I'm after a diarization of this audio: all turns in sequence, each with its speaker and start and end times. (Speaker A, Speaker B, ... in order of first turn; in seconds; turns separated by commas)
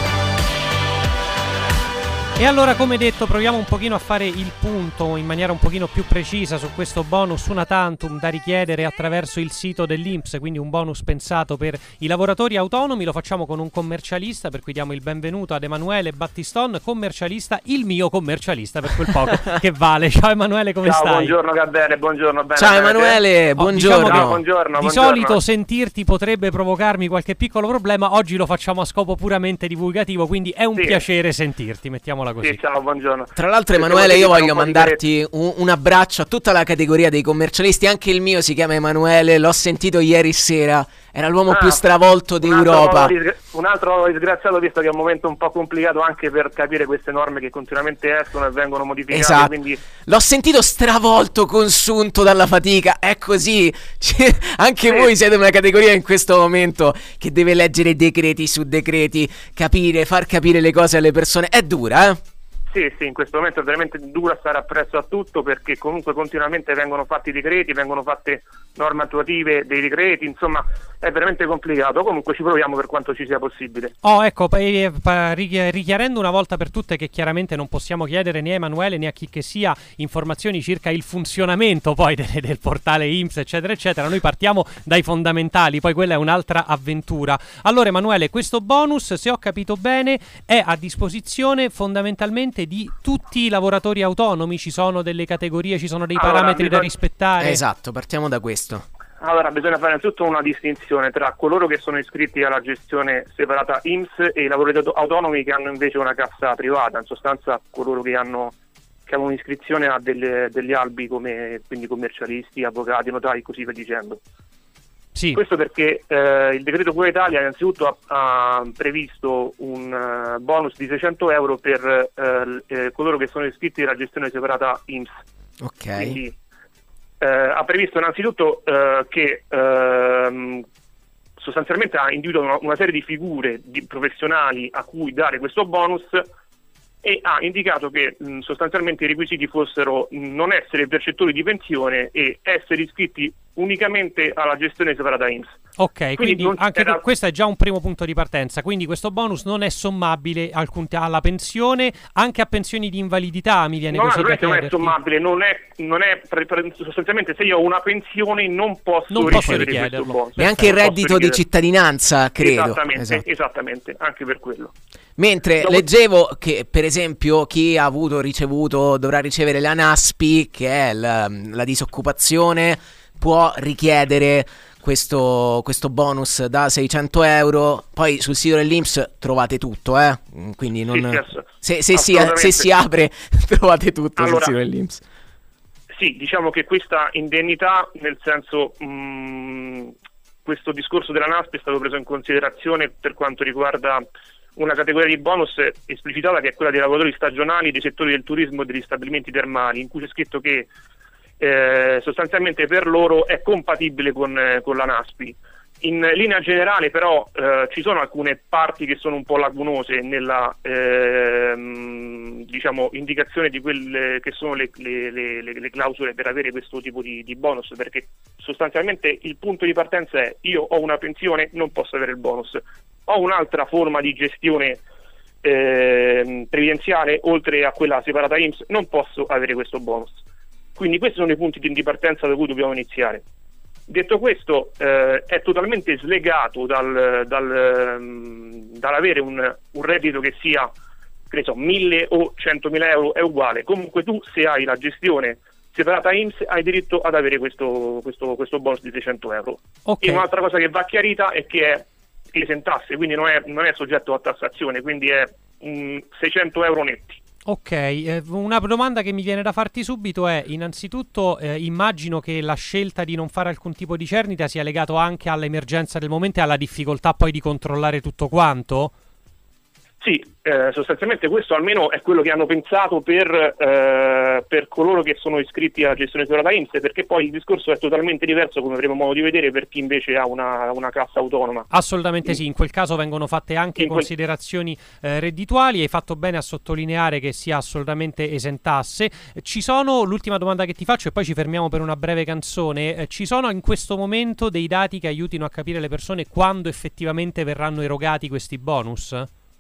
Speaker A: 2.4-21.3, Speaker B: 20.8-23.2, Speaker C: 22.5-24.4, Speaker A: 23.6-32.6, Speaker B: 23.9-25.4, Speaker B: 30.8-31.0, Speaker B: 32.4-35.0, Speaker C: 33.4-43.1, Speaker B: 41.5-41.8, Speaker B: 42.4-49.8, Speaker C: 49.1-62.2, Speaker B: 54.8-55.1, Speaker B: 62.7-73.9, Speaker A: 74.0-97.6, Speaker B: 96.2-96.9, Speaker C: 97.4-98.8, Speaker B: 99.2-108.5, Speaker B: 109.0-114.2, Speaker B: 115.3-125.2, Speaker C: 125.6-126.2, Speaker B: 125.9-126.3, Speaker B: 127.2-130.6, Speaker B: 131.4-136.2, Speaker B: 137.0-145.6, Speaker A: 145.8-154.9, Speaker B: 146.2-147.0, Speaker B: 153.9-161.4, Speaker A: 159.1-160.8, Speaker C: 159.2-159.7, Speaker C: 160.4-163.2, Speaker B: 162.4-164.7, Speaker C: 165.2-185.0, Speaker B: 165.6-165.9, Speaker B: 180.9-182.7, Speaker B: 184.2-184.6, Speaker B: 185.9-189.9, Speaker B: 190.4-194.0, Speaker B: 194.6-200.7, Speaker B: 201.4-224.8, Speaker B: 225.4-230.2, Speaker B: 230.8-233.2, Speaker B: 233.9-240.7, Speaker B: 241.3-257.2, Speaker A: 249.8-250.2, Speaker A: 257.4-268.9, Speaker B: 270.0-281.7, Speaker A: 281.7-299.3, Speaker B: 283.8-284.1